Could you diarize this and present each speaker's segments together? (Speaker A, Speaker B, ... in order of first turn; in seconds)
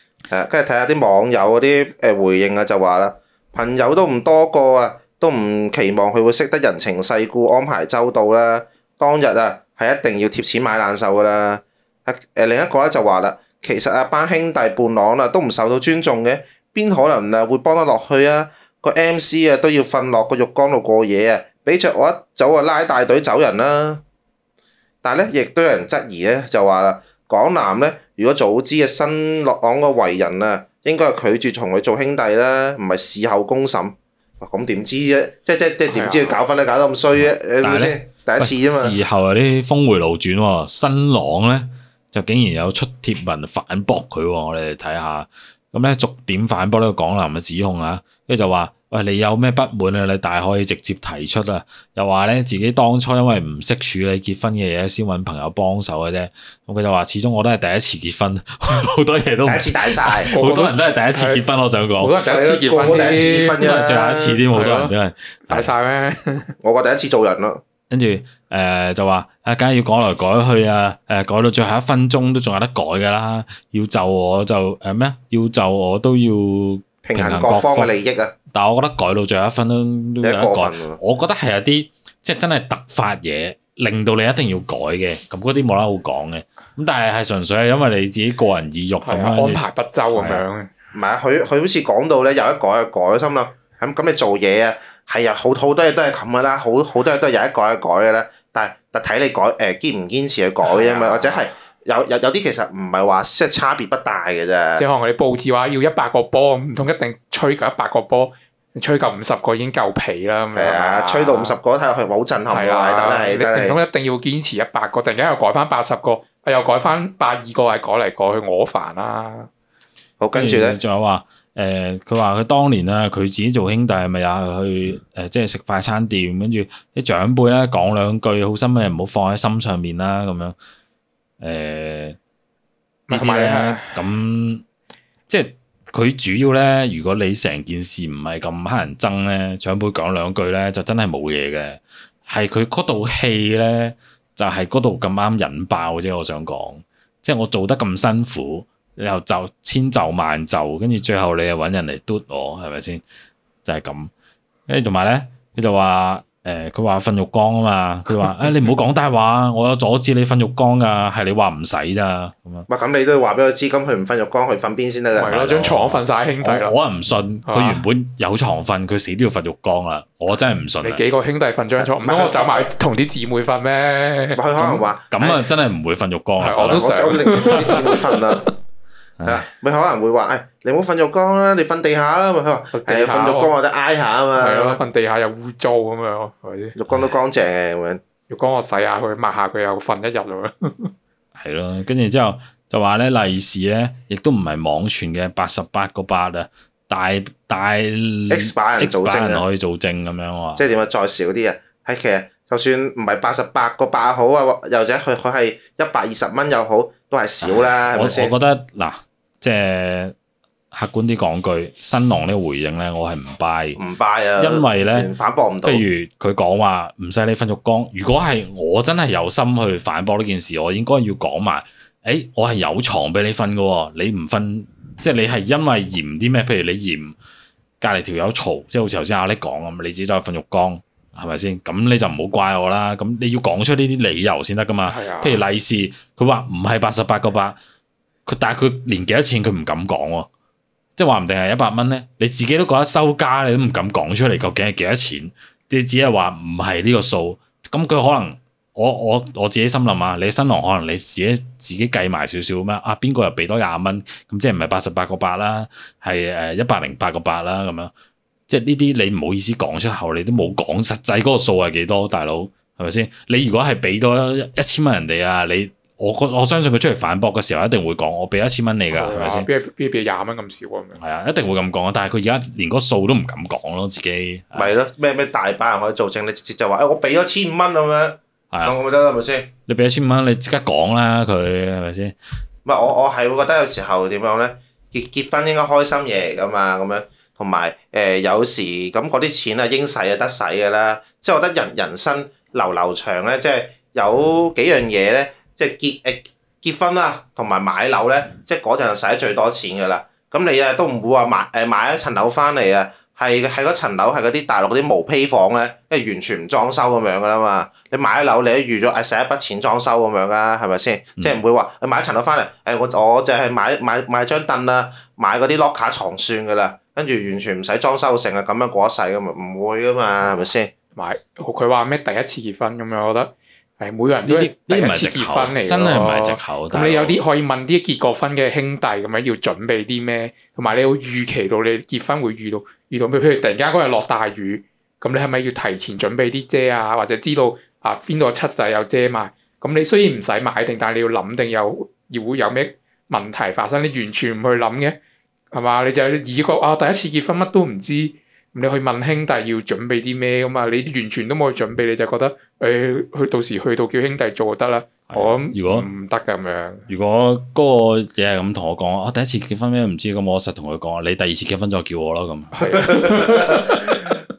Speaker A: 0.3-24.0, 25.0-39.0, 59.5-60.3, 62.2-64.4, 66.6-67.6, 77.0-78.3, 80.2-81.0, 90.9-104.8, 110.5-113.8, 120.2-120.8, 162.7-165.4, 171.8-172.7, 174.3-175.4, 176.6-178.5, 179.2-184.8, 186.8-188.0, 198.3-199.4, 200.6-208.3, 213.8-215.8, 274.6-279.5, 282.6-320.7
Speaker B: 35.9-36.4, 60.3-61.4, 62.0-63.8, 64.5-64.9, 65.5-66.5, 89.0-90.7, 100.6-101.5, 104.8-111.6, 112.5-119.5, 133.1-134.0, 165.1-166.8, 167.5-167.9, 170.8-174.4, 176.4-178.4, 182.7-183.5, 184.4-186.8, 188.3-190.9, 234.9-235.4, 268.9-271.0, 321.0-345.0, 345.5-356.9, 362.5-364.2
Speaker C: 37.2-62.1, 63.5-65.7, 67.9-77.9, 78.5-90.4, 120.3-130.6, 131.4-132.2, 133.1-134.7, 135.3-153.0, 153.6-154.1, 154.7-162.7, 165.2-171.0, 174.6-177.5, 191.4-200.6, 207.4-210.1, 210.7-213.8, 214.4-215.1, 215.6-227.1, 227.8-237.6, 238.3-240.3, 241.0-257.9, 258.5-269.5, 271.0-274.7, 279.7-282.1, 324.2-327.2, 355.1-355.9, 356.9-363.1